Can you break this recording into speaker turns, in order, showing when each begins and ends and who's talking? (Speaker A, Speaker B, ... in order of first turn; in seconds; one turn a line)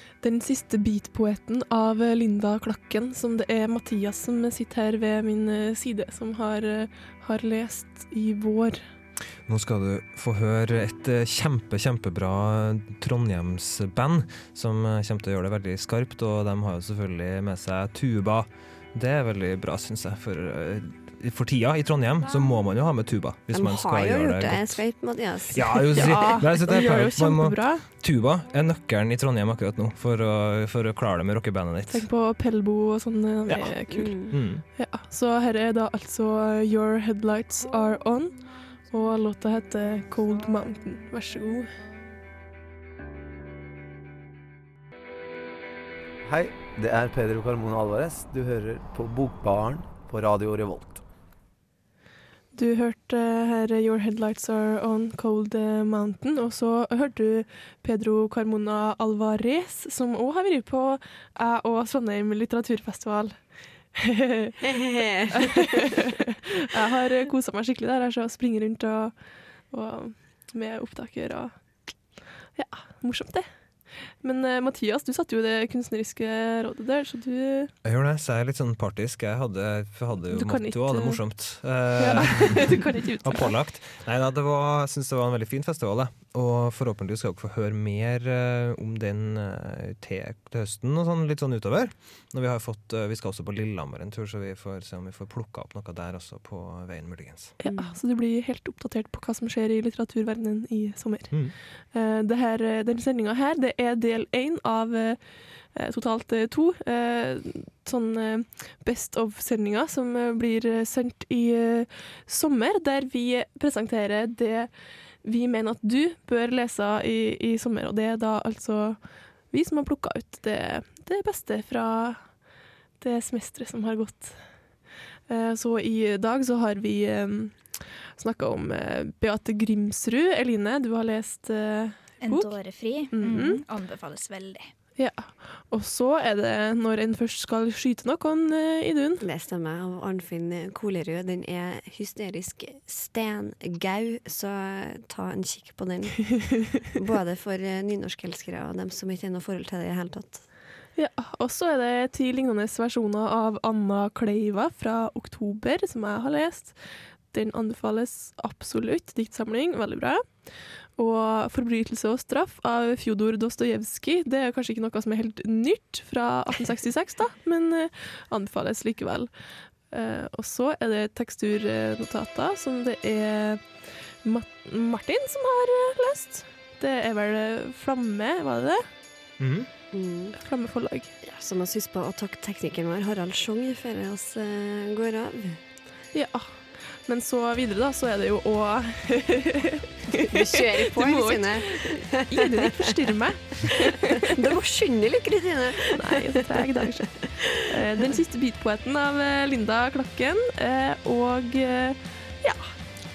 Speaker A: 0.2-8.8
Speaker B: 9.5-24.9
Speaker C: 23.5-26.2
Speaker B: 25.5-32.1
Speaker A: 25.9-27.9
Speaker A: 31.9-38.4
Speaker C: 33.9-34.4
Speaker B: 34.3-34.6
Speaker A: 38.9-41.7
Speaker D: 46.2-51.0
Speaker A: 52.5-63.4
Speaker A: 63.9-64.6
Speaker C: 64.6-66.0
Speaker A: 65.4-66.1
Speaker A: 66.7-69.2
Speaker A: 69.7-71.5
Speaker A: 72.5-73.5
Speaker A: 74.2-77.7
Speaker B: 77.8-97.5
Speaker A: 80.3-83.5
Speaker A: 97.6-114.7
Speaker C: 97.6-98.0
Speaker B: 101.3-101.5
Speaker A: 115.2-119.0
Speaker A: 119.5-122.2
Speaker A: 123.0-124.4
Speaker A: 125.3-132.6
Speaker E: 132.2-134.7
Speaker A: 133.1-133.6
Speaker A: 135.0-139.2
Speaker C: 139.2-150.4
Speaker A: 150.9-156.8
Speaker A: 157.3-169.3
Speaker A: 169.9-178.8
Speaker B: 179.4-179.7
Speaker C: 179.9-180.4
Speaker A: 180.3-181.1
Speaker C: 181.2-185.6
Speaker A: 186.1-194.2
Speaker C: 190.1-192.8
Speaker C: 193.7-197.6
Speaker A: 195.9-202.7